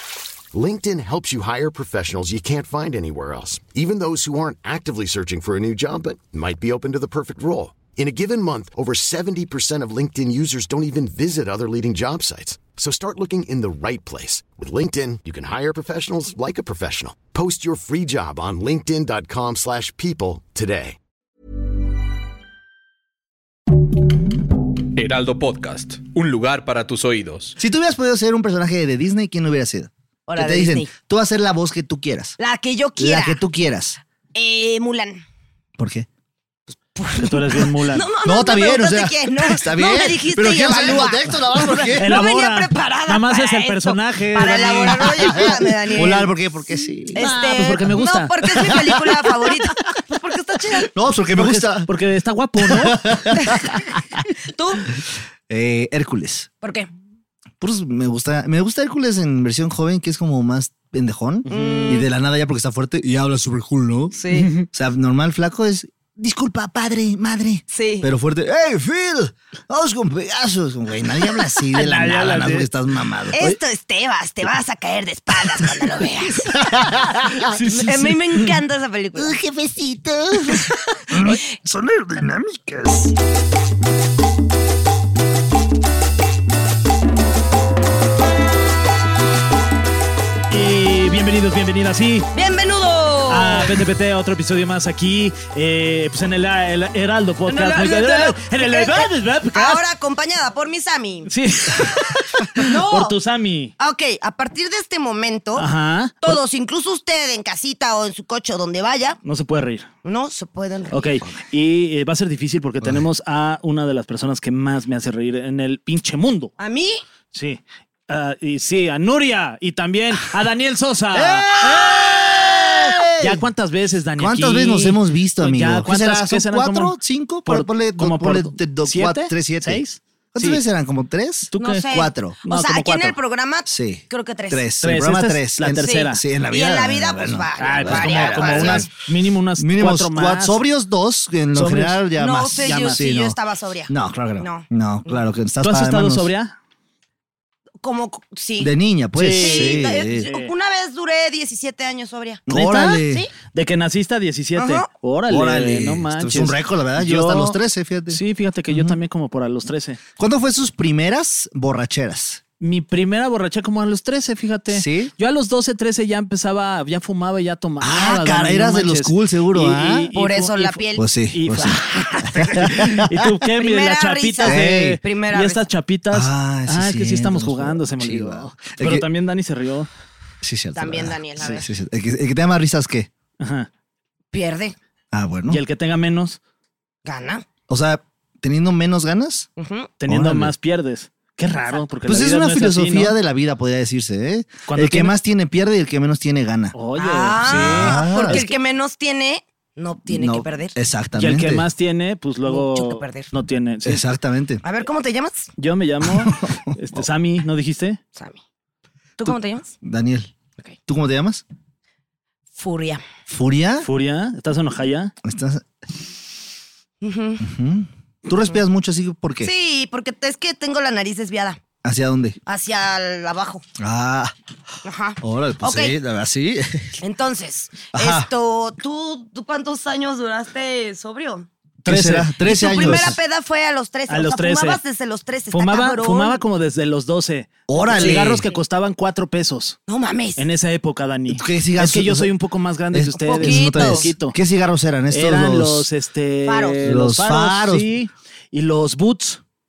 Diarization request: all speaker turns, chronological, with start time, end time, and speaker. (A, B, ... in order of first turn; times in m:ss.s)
0:00.5-0:21.0 A
0:25.0-0:27.6 B
0:27.6-0:32.4 C
0:30.3-0:30.9 D
0:32.4-0:33.4 D
0:33.0-0:34.0 C
0:34.3-0:35.2 D
0:35.8-0:36.1 C
0:36.9-0:46.3 D
0:37.2-0:38.1 E
0:38.2-0:42.2 C
0:42.0-0:45.6 E
0:45.1-0:47.3 C
0:47.1-0:50.9 D
0:47.2-0:49.0 E
0:48.6-0:49.0 C
0:50.9-0:51.9 C
0:51.4-0:53.1 E
0:52.6-0:54.0 C
0:53.4-0:53.7 D
0:54.5-0:54.9 D
0:55.5-0:56.5 C
0:56.6-0:56.9 D
0:57.6-1:13.5 C
1:01.5-1:02.0 E
1:01.5-1:02.0 D
1:04.1-1:04.5 D
1:04.3-1:04.7 E
1:07.7-1:08.1 D
1:11.7-1:12.7 E
1:13.3-1:19.4 D
1:16.5-1:17.5 C
1:17.4-1:18.6 E
1:19.1-1:23.1 C
1:20.4-1:21.4 D
1:30.5-1:32.3 E
1:32.3-1:33.7 D
1:33.3-1:39.8 E
1:37.5-1:43.1 D
1:41.3-1:43.7 E
1:42.6-1:43.0 C
1:43.8-1:45.7 D
1:45.5-1:46.4 E
1:46.2-1:49.2 D
1:49.2-1:49.9 E
1:50.0-1:51.2 D
1:50.9-1:56.5 E
1:56.6-1:57.0 D
1:57.3-2:10.6 E
2:01.1-2:03.4 C
2:04.2-2:12.4 C
2:11.5-2:13.2 E
2:11.6-2:14.7 D
2:13.7-2:18.9 C
2:14.8-2:16.2 E
2:15.7-2:18.9 D
2:17.6-2:20.6 E
2:19.6-2:23.4 C
2:21.5-2:22.1 E
2:22.2-2:24.6 D
2:22.6-2:23.1 E
2:23.9-2:26.3 C
2:25.6-2:26.5 E
2:27.8-2:28.7 D
2:28.6-2:30.3 C
2:29.2-2:30.5 E
2:29.3-2:33.3 D
2:32.5-2:33.3 C
2:33.5-2:37.6 E
2:34.6-2:34.9 D
2:35.3-2:39.0 C
2:38.1-2:40.0 E
2:40.2-2:42.4 C
2:42.6-2:59.9 E
2:44.7-2:45.1 C
2:47.8-2:50.1 C
2:50.1-2:51.0 D
2:51.0-2:53.2 C
2:51.6-2:52.6 D
2:53.6-2:55.7 D
2:54.4-2:55.0 C
2:56.1-2:59.1 C
3:00.4-3:03.1 C
3:00.7-3:01.6 D
3:03.4-3:03.7 E
3:04.3-3:04.7 D
3:05.1-3:05.6 C
3:05.5-3:06.4 E
3:07.0-3:07.4 D
3:07.7-3:09.5 C
3:09.6-3:09.9 D
3:10.0-3:13.2 E
3:10.1-3:10.5 C
3:12.0-3:16.7 C
3:14.7-3:15.1 E
3:16.7-3:18.5 E
3:17.0-3:20.7 D
3:17.4-3:18.4 C
3:20.1-3:21.6 C
3:21.2-3:24.0 E
3:22.4-3:23.3 D
3:23.8-3:24.6 C
3:24.6-3:25.5 D
3:25.6-3:28.0 E
3:26.0-3:27.0 C
3:29.2-3:29.7 D
3:29.8-3:30.3 C
3:30.9-3:31.4 C
3:32.5-3:33.0 D
3:33.3-3:33.9 C
3:33.8-3:35.1 E
3:35.2-3:35.6 C
3:37.0-3:37.4 D
3:37.4-3:39.5 C
3:39.4-3:41.6 D
3:41.8-3:42.4 C
3:42.4-3:43.6 D
3:43.8-3:44.3 C
3:44.8-3:45.9 D
3:45.2-3:47.0 C
3:47.0-3:51.5 D
3:47.9-3:48.3 C
3:51.8-3:53.1 E
3:51.8-3:53.2 C
3:52.4-3:56.4 D
3:54.1-3:54.8 E
3:55.5-3:59.8 E
3:57.7-3:58.5 C
3:57.8-3:58.6 D
3:59.9-4:00.4 D
4:00.4-4:04.4 E
4:01.3-4:02.3 C
4:02.9-4:05.9 C
4:03.1-4:04.1 D
4:05.1-4:09.4 E
4:06.4-4:06.8 D
4:06.8-4:07.9 C